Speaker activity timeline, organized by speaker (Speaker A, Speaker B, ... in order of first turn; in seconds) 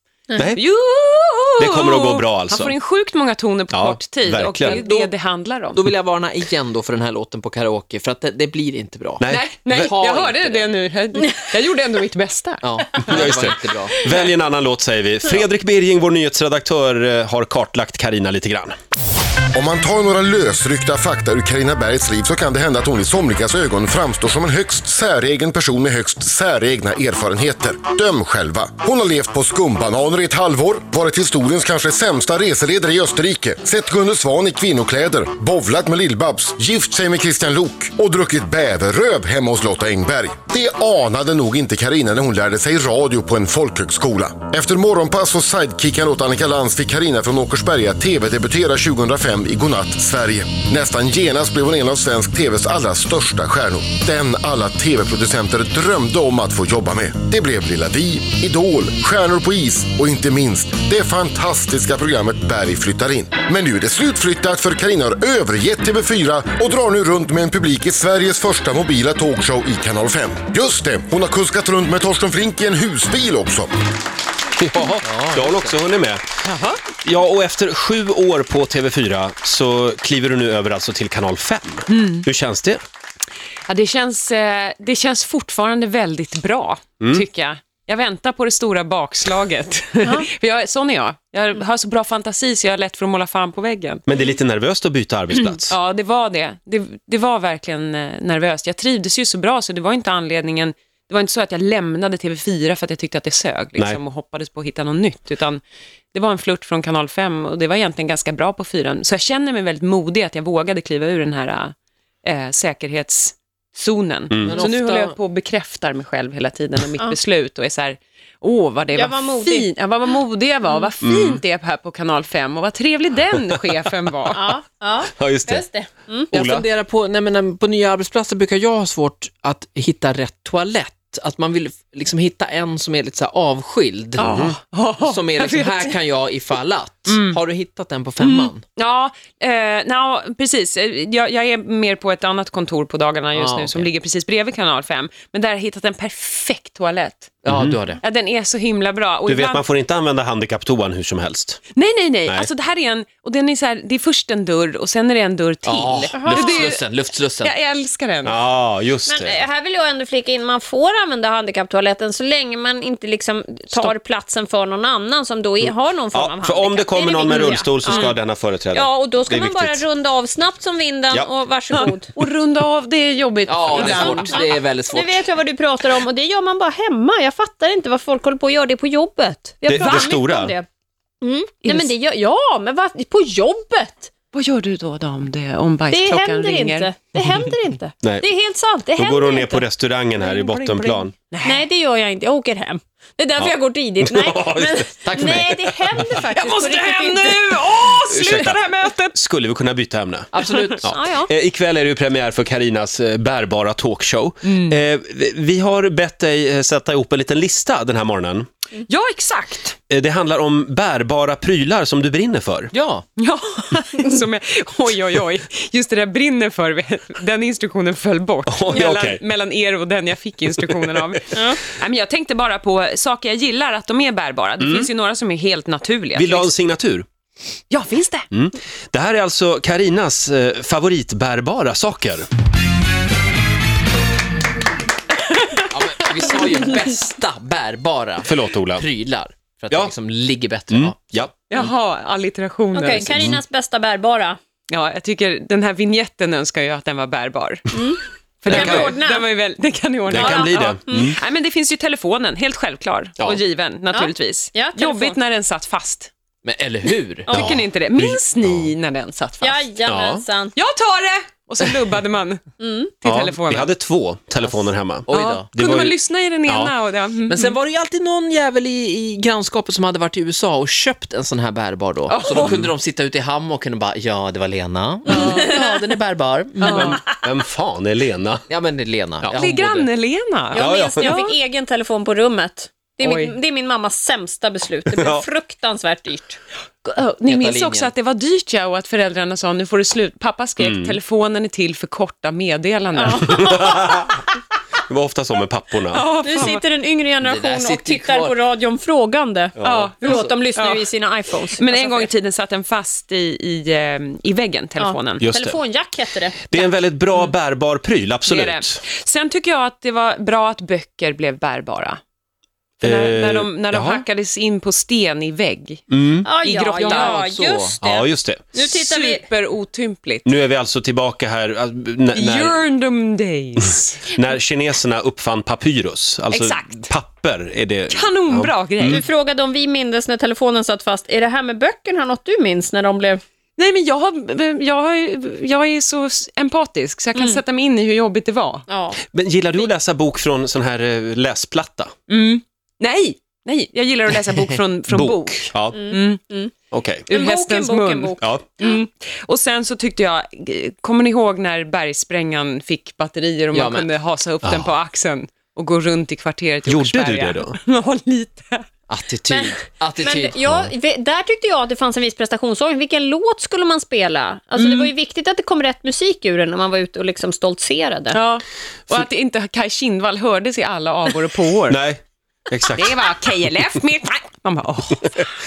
Speaker A: 0.3-0.6, 1.6-2.8, 3.7-4.8, 9.2-9.9, 13.0-18.8, 74.5-76.2, 77.0-82.8, 87.0-87.2, 94.1-95.8, 114.3-114.6, 121.0-121.4, 125.2-125.7, 126.3-126.7, 134.2-134.6, 147.5-147.8, 149.3-151.6, 158.2-159.4, 165.7-169.8, 179.7-180.6, 189.0-191.1, 193.4-194.9, 198.1-198.6, 199.1-208.5, 209.9-212.7, 218.5-219.2, 220.6-220.9, 224.6-224.9, 226.2-227.1, 228.3-232.3, 238.2-238.9, 240.7-241.7, 248.5-248.9, 250.1-251.2, 257.3-258.7, 259.9-260.2, 263.1-266.7, 272.4-272.7, 276.7-278.4, 280.6-281.2, 284.9-285.2, 290.6-291.0, 293.2-294.2, 294.8-296.5, 299.6-299.9, 305.2-305.6, 306.5-308.8, 312.8-314.0, 315.9-316.3, 317.8-318.4, 320.2-322.6, 324.1-329.0, 339.1-341.9, 344.9-345.8, 346.7-347.1, 356.7-357.6, 371.7-373.0
Speaker B: 0.6-5.9, 9.3-13.2, 76.5-76.8, 81.9-82.3, 83.7-94.0, 95.4-105.6, 106.1-124.6, 134.2-135.9, 137.1-137.4, 138.2-147.4, 148.0-149.7, 151.8-158.4, 171.7-174.5, 181.6-181.9, 184.3-186.9, 190.2-191.6, 196.2-199.2, 200.4-200.8, 208.9-209.8, 213.2-226.5, 227.7-228.3, 235.3-235.6, 241.5-243.2, 244.7-247.8, 248.4-256.1, 257.3-259.6, 260.6-262.4, 263.0-263.7, 265.1-267.6, 272.1-272.6, 275.1-275.6, 276.6-277.1, 279.3-281.4, 283.0-283.4, 286.9-293.7, 295.9-296.6, 299.6-300.9, 301.5-305.2, 306.5-307.3, 308.3-312.0, 312.8-315.8, 316.4-317.2, 318.6-320.3, 322.1-324.1, 326.3-326.9, 327.9-329.1, 333.6-338.7, 342.1-346.2, 347.1-358.7, 364.6-364.9, 368.1-371.8, 372.7-375.3
Speaker C: 4.6-5.1, 5.7-10.7, 12.6-14.0, 75.0-75.8, 114.5-115.2, 126.3-134.4, 135.0-138.6, 143.3-143.9, 147.4-148.0, 155.6-157.5, 173.5-175.2, 195.0-195.7, 200.3-201.0, 212.7-213.1, 235.6-241.6, 256.4-257.4, 264.4-265.5, 267.3-277.0, 278.5-279.9, 287.2-287.9, 297.2-298.4, 300.0-300.3, 316.8-317.8, 353.5-353.9, 358.9-360.7
Speaker D: 19.5-73.7
Speaker E: 90.0-90.3, 118.9-119.7, 124.3-126.3, 156.1-156.7, 159.1-168.2, 168.7-172.1, 173.7-180.7, 181.2-184.1, 185.9-189.6, 191.4-197.4, 200.9-201.3, 221.3-221.6, 242.7-244.4, 247.7-249.3, 250.1-251.1, 253.9-255.2, 257.3-257.5, 259.4-260.5, 262.6-262.9, 275.1-275.9, 280.6-286.4, 292.9-294.1, 296.1-302.1, 304.8-306.4, 316.2-319.2, 328.8-333.2, 337.1-337.4, 338.7-339.0, 345.7-346.5, 347.1-348.8, 359.3-368.2